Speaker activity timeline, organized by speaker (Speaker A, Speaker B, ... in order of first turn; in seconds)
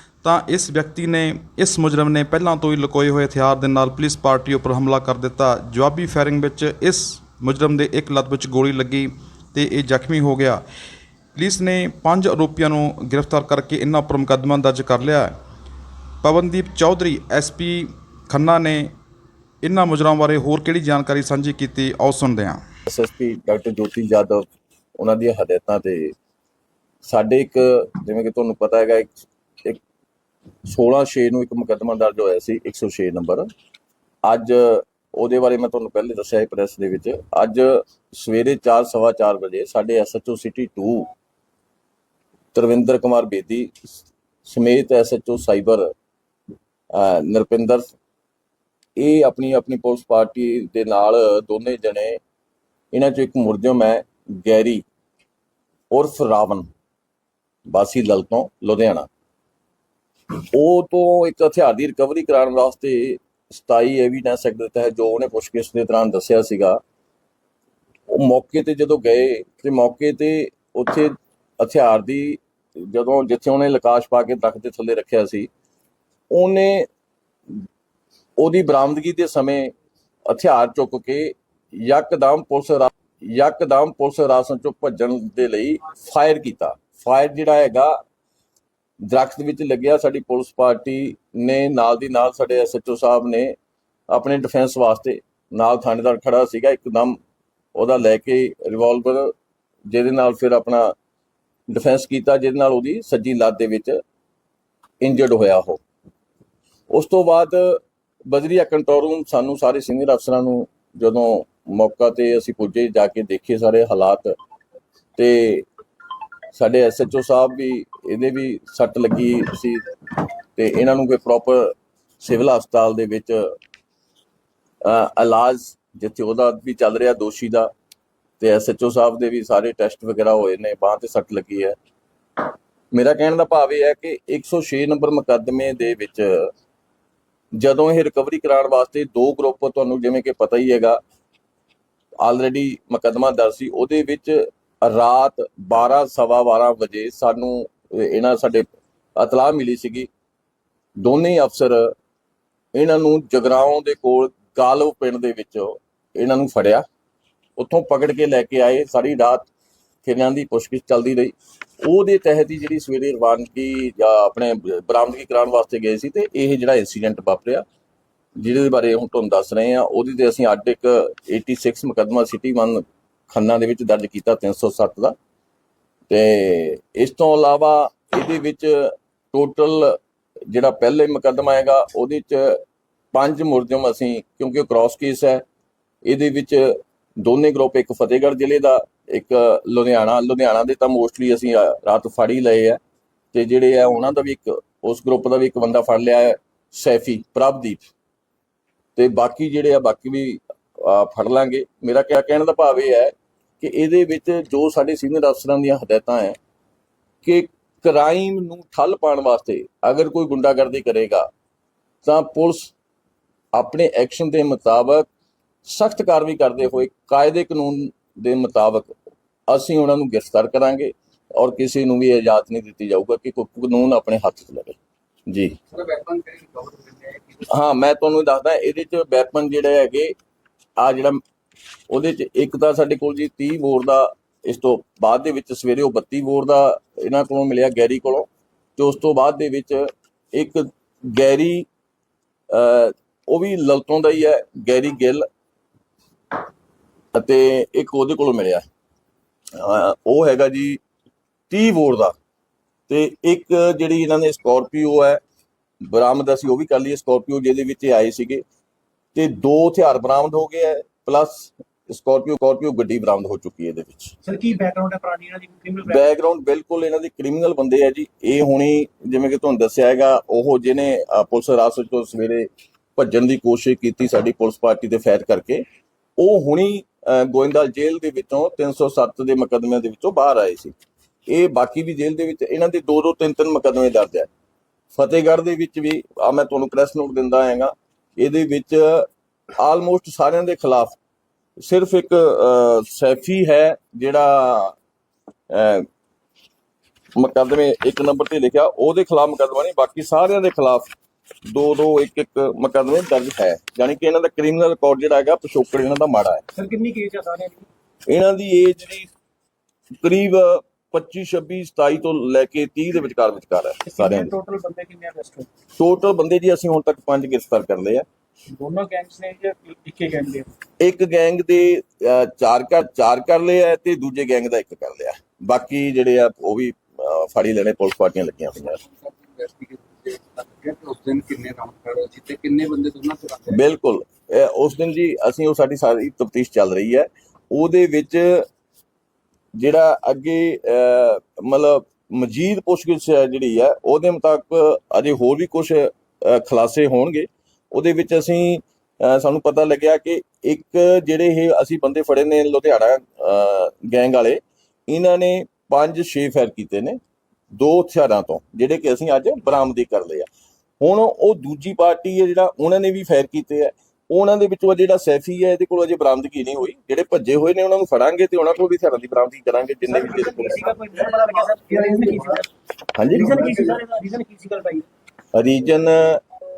Speaker A: 0.2-10.6, 11.3-15.3, 16.2-18.9, 19.6-22.6
Speaker B: 22.9-24.5, 25.0-26.1, 27.1-29.8, 30.7-33.5, 34.2-41.1, 42.5-45.9, 46.9-47.9, 49.0-52.2, 52.9-54.9, 55.9-56.7, 57.7-59.1, 60.5-66.8, 68.1-75.5, 76.3-76.9, 78.4-79.7, 80.3-88.0, 89.0-93.5, 94.1-97.2, 97.8-99.3, 99.9-100.9, 101.7-104.0, 105.0-105.8, 106.9-114.3, 115.2-115.7, 116.5-119.8, 120.6-123.4, 124.8-127.7, 128.4-131.8, 132.9-136.5, 137.6-141.0, 142.2-150.1, 151.0-151.9, 152.8-156.8, 157.6-159.5, 160.1-167.6, 168.4-175.1, 176.1-180.0, 180.5-182.6, 183.1-185.4, 186.1-192.8, 193.3-197.8, 199.0-206.4, 207.2-211.3, 212.0-212.7, 213.5-215.1, 215.7-218.9, 219.5-224.8, 225.3-225.6, 227.5-230.1, 230.8-231.2, 231.9-241.7, 242.5-245.2, 247.1-248.7, 249.6-250.8, 251.5-252.2, 252.9-255.2, 255.9-258.4, 259.1-264.1, 265.9-275.6, 276.2-280.7, 281.3-284.3, 284.9-291.0, 291.6-294.8, 295.5-295.9, 297.2-300.9, 301.5-306.4, 308.1-309.1, 310.0-314.3, 315.8-318.1, 320.8-328.8, 333.5-338.5, 339.6-357.0, 357.5-360.3, 360.8-370.7, 372.9-373.8, 375.3-376.2
Speaker C: 225.7-227.5, 328.7-333.6
Speaker D: 264.3-266.0, 306.6-307.7, 313.9-315.5, 318.5-320.5, 369.9-372.5, 373.1-374.9